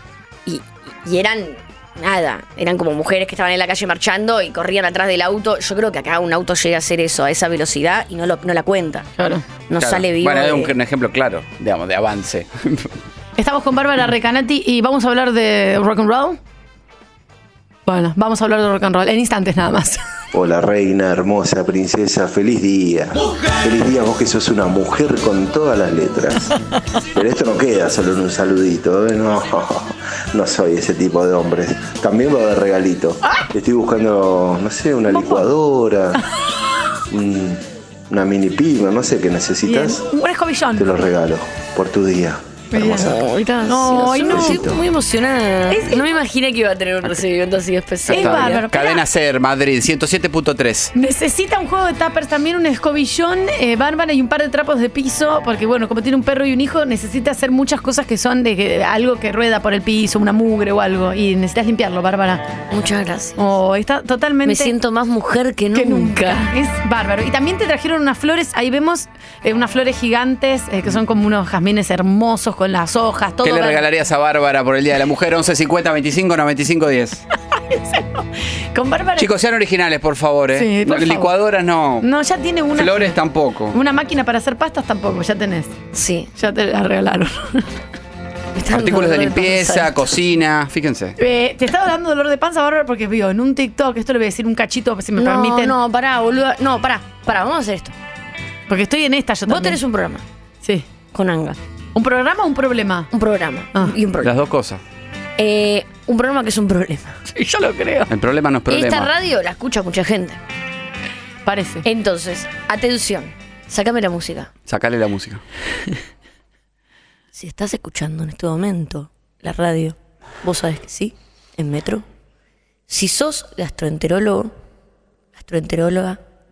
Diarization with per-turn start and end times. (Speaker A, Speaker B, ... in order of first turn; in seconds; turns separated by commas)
Speaker A: 0.5-9.1, Speaker B: 9.2-9.4, Speaker A: 9.7-10.7, Speaker C: 9.8-12.9, Speaker B: 13.4-16.4, Speaker B: 17.9-20.0, Speaker D: 20.3-26.5, Speaker D: 27.1-36.2, Speaker B: 35.1-35.4, Speaker D: 37.1-40.1, Speaker B: 39.6-40.9, Speaker D: 40.8-43.2, Speaker B: 42.7-43.1, Speaker A: 43.0-48.6, Speaker B: 43.6-44.7, Speaker D: 44.3-44.8, Speaker B: 45.7-46.1, Speaker C: 48.1-50.9, Speaker B: 48.1-49.0, Speaker B: 50.9-62.5, Speaker A: 62.7-63.4, Speaker B: 63.4-64.7, Speaker A: 64.4-66.5, Speaker B: 65.7-73.8, Speaker C: 73.4-77.2, Speaker B: 77.5-79.3, Speaker C: 79.2-82.1, Speaker B: 80.5-81.3, Speaker B: 82.0-83.2, Speaker C: 82.7-83.8, Speaker B: 83.7-85.8, Speaker A: 85.9-86.3, Speaker B: 86.4-87.7, Speaker A: 88.5-90.0, Speaker C: 88.7-91.2, Speaker B: 91.2-95.7, Speaker A: 95.2-97.9, Speaker B: 98.7-99.8, Speaker A: 99.5-100.2, Speaker A: 101.1-101.6, Speaker B: 101.9-103.1, Speaker A: 103.1-104.3, Speaker C: 104.2-104.8, Speaker A: 105.4-107.2, Speaker B: 107.3-108.1, Speaker C: 108.1-109.1, Speaker A: 108.7-110.4, Speaker B: 111.5-111.8, Speaker A: 111.8-114.5, Speaker C: 114.7-115.4, Speaker A: 117.3-122.0, Speaker A: 122.9-124.5, Speaker A: 125.4-126.2